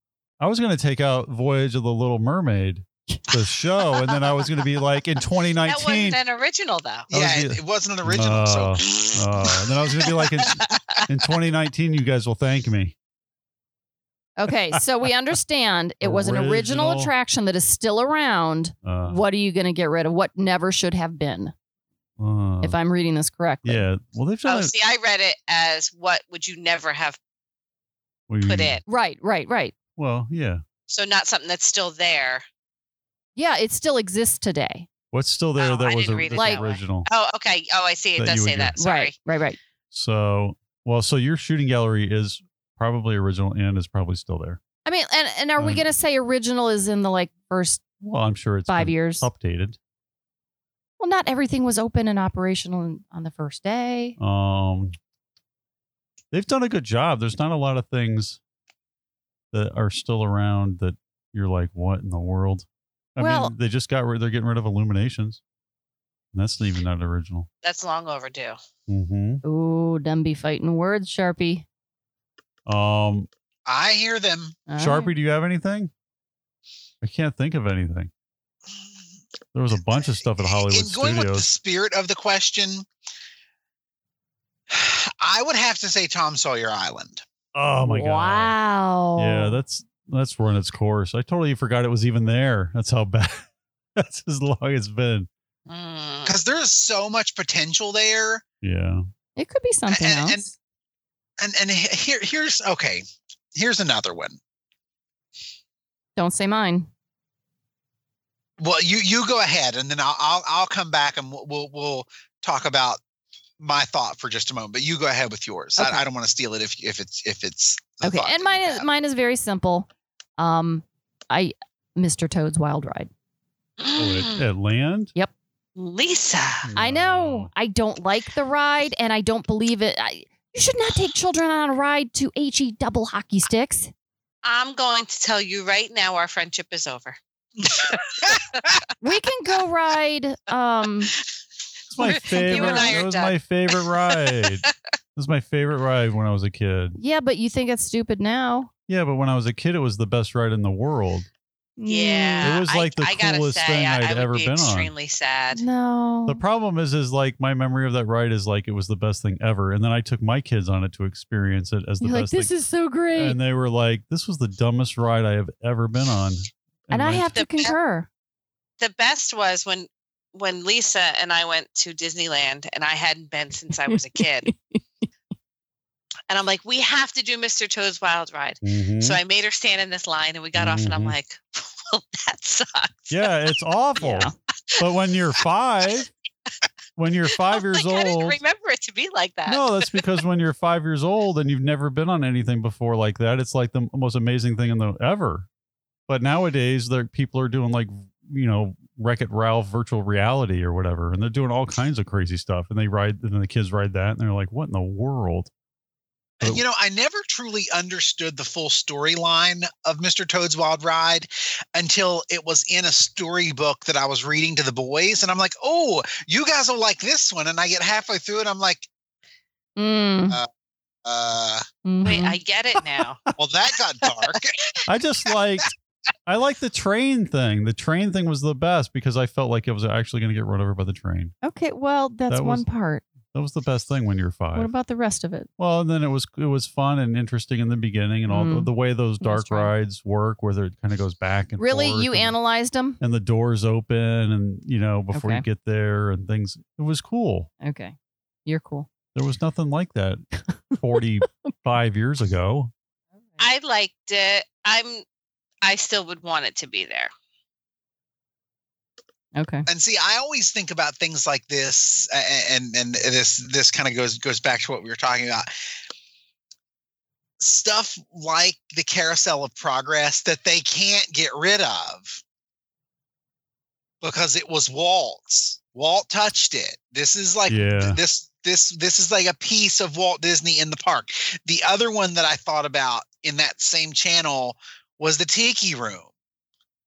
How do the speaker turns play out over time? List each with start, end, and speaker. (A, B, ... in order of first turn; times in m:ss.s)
0:00.4-0:06.2 A
0:05.6-0:07.1 B
0:07.1-0:09.0 C
0:07.1-0:13.0 A
0:09.0-0:11.0 B
0:14.4-0:21.5 D
0:16.0-0:17.1 A
0:18.8-0:19.2 A
0:22.2-0:22.8 A
0:22.6-0:23.9 D
0:23.6-0:24.7 A
0:24.4-0:27.2 B
0:28.3-0:28.8 A
0:28.4-0:28.8 B
0:28.9-0:29.8 D
0:30.0-0:30.6 A
0:30.9-0:32.4 B
0:33.4-0:34.9 D
0:35.1-0:37.1 A
0:35.6-0:39.1 B
0:36.3-0:36.6 D
0:38.2-0:38.8 A
0:38.8-0:39.6 D
0:39.9-0:44.6 A
0:44.8-0:47.8 D
0:45.6-0:45.8 A
0:48.0-0:49.8 A
0:48.7-0:49.3 D
0:51.0-0:54.2 D
0:54.2-0:55.0 A
0:56.3-0:58.4 A
0:59.5-1:05.4 A
1:03.2-1:03.5 D
1:06.3-1:07.5 A
1:07.6-1:08.6 B
1:08.9-1:09.4 A
1:09.4-1:11.7 D
1:12.7-1:13.3 A
1:13.7-1:14.6 C
1:14.7-1:15.1 D
1:14.8-1:15.9 A
1:17.0-1:18.1 A
1:19.5-1:21.5 A
1:20.4-1:22.9 C
1:24.7-1:27.2 C
1:27.5-1:28.6 A
1:27.8-1:29.6 D
1:29.2-1:35.3 A
1:35.7-1:36.4 B
1:36.2-1:38.4 C
1:38.6-1:39.0 A
1:39.4-1:40.4 D
1:39.9-1:40.5 C
1:41.4-1:44.4 C
1:46.2-1:46.9 D
1:48.6-1:53.0 C
1:53.6-1:58.9 C
1:55.8-1:56.0 D
1:58.0-2:03.1 D
2:03.8-2:04.4 B
2:04.0-2:05.1 A
2:05.8-2:06.7 B
2:06.6-2:07.5 A
2:06.8-2:13.9 D
2:14.4-2:18.8 B
2:19.0-2:21.1 D
2:21.9-2:27.0 A
2:22.0-2:23.0 D
2:22.0-2:24.7 B
2:27.0-2:28.7 D
2:28.9-2:31.3 A
2:31.8-2:32.6 D
2:31.9-2:35.6 B
2:32.4-2:34.9 A
2:35.5-2:36.4 D
2:36.3-2:42.5 A
2:42.0-2:43.4 D
2:43.1-2:47.3 A
2:46.9-2:48.1 D
2:47.4-2:47.8 B
2:48.8-2:54.5 B
2:53.9-2:55.1 D
2:56.3-3:03.5 B
2:58.6-2:59.2 A
3:00.6-3:01.2 A
3:03.1-3:06.1 A
3:04.0-3:04.3 D
3:07.0-3:08.4 A
3:07.3-3:10.0 B
3:09.5-3:15.5 A
3:16.1-3:25.5 A
3:26.4-3:38.9 C
3:39.8-3:40.4 D
3:41.0-3:41.6 C
3:41.8-3:42.4 D
3:42.0-3:43.2 B
3:43.4-3:44.6 C
3:44.9-3:51.3 A
3:51.4-3:53.0 D
3:52.3-3:52.7 A
3:53.3-3:54.7 A
3:54.6-3:55.5 D
3:55.6-4:02.4 A
3:58.3-3:58.7 D
3:59.2-3:59.7 D
4:01.6-4:03.0 D
4:03.0-4:07.5 A
4:05.1-4:05.4 D
4:07.6-4:08.9 D
4:09.1-4:12.7 A
4:13.4-4:15.0 B
4:15.6-4:17.1 B
4:19.4-4:19.7 D
4:19.7-4:25.5 C
4:27.4-4:32.2 C
4:34.0-4:46.1 C
4:37.5-4:38.0 A